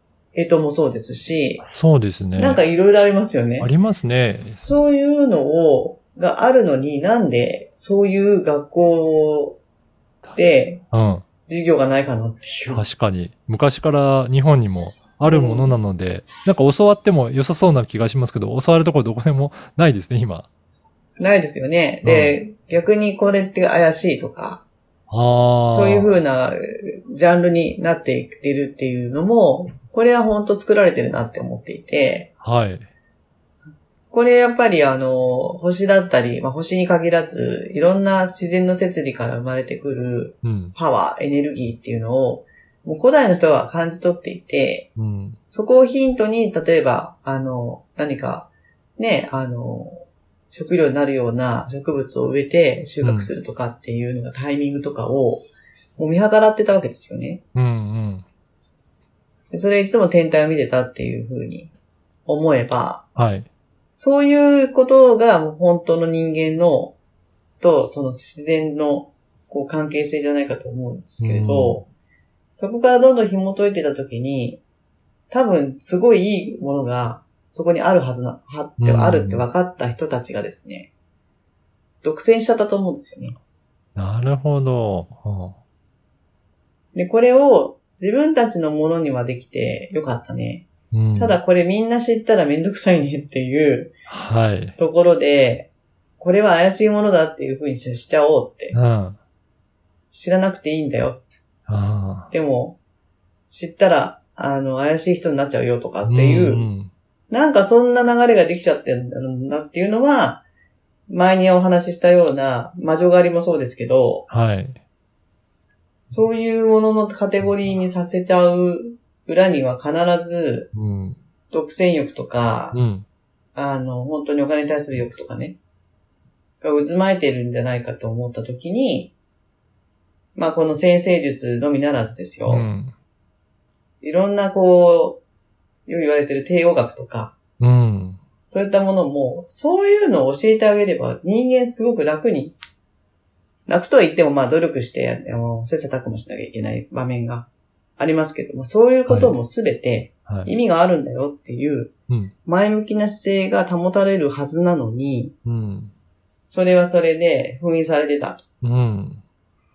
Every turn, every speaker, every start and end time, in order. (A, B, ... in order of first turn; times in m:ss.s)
0:00.3-0:01.6 A
0:01.6-0:02.6 B
0:02.4-0:03.7 A
0:03.6-0:04.8 B
0:04.6-0:09.6 A
0:10.3-0:10.8 A
0:10.9-0:11.2 B
0:11.4-0:12.8 A
0:12.7-0:20.5 B
0:15.2-0:15.8 A
0:21.2-0:24.6 A
0:22.0-0:22.4 B
0:25.1-0:26.1 B
0:25.7-0:32.3 A
0:32.4-0:32.9 B
0:34.1-0:44.9 A
0:40.4-0:40.7 B
0:45.0-0:45.4 B
0:45.5-0:55.4 A
0:53.0-0:53.3 B
0:56.0-0:57.4 A
0:57.5-0:58.2 B
0:59.5-1:01.7 A
1:02.2-1:03.0 A
1:03.2-1:03.5 B
1:03.9-1:06.9 A
1:07.6-1:11.8 A
1:11.2-1:11.8 B
1:12.5-1:14.6 A
1:15.3-1:20.9 A
1:18.8-1:19.4 B
1:22.0-1:23.4 A
1:24.0-1:25.5 B
1:26.9-1:33.9 A
1:30.9-1:31.4 B
1:34.1-1:34.8 B
1:34.8-1:35.7 A
1:36.2-1:38.8 A
1:38.7-1:39.2 B
1:40.1-1:41.2 A
1:41.7-1:42.3 B
1:42.3-1:42.8 A
1:43.5-1:46.7 A
1:46.0-1:46.9 B
1:47.3-1:50.4 A
1:51.1-1:54.3 A
1:54.3-1:54.8 B
1:56.1-2:00.7 A
2:00.7-2:01.2 B
2:01.5-2:02.8 A
2:02.7-2:03.0 B
2:03.5-2:05.6 A
2:06.6-2:09.1 A
2:10.3-2:12.7 A
2:12.4-2:12.9 B
2:14.0-2:15.2 A
2:15.9-2:17.3 A
2:17.6-2:18.2 B
2:18.4-2:22.5 A
2:23.7-2:31.9 A
2:29.1-2:29.4 B
2:30.3-2:30.5 B
2:32.4-2:35.3 A
2:35.4-2:35.9 B
2:36.5-2:38.4 A
2:38.6-2:39.2 B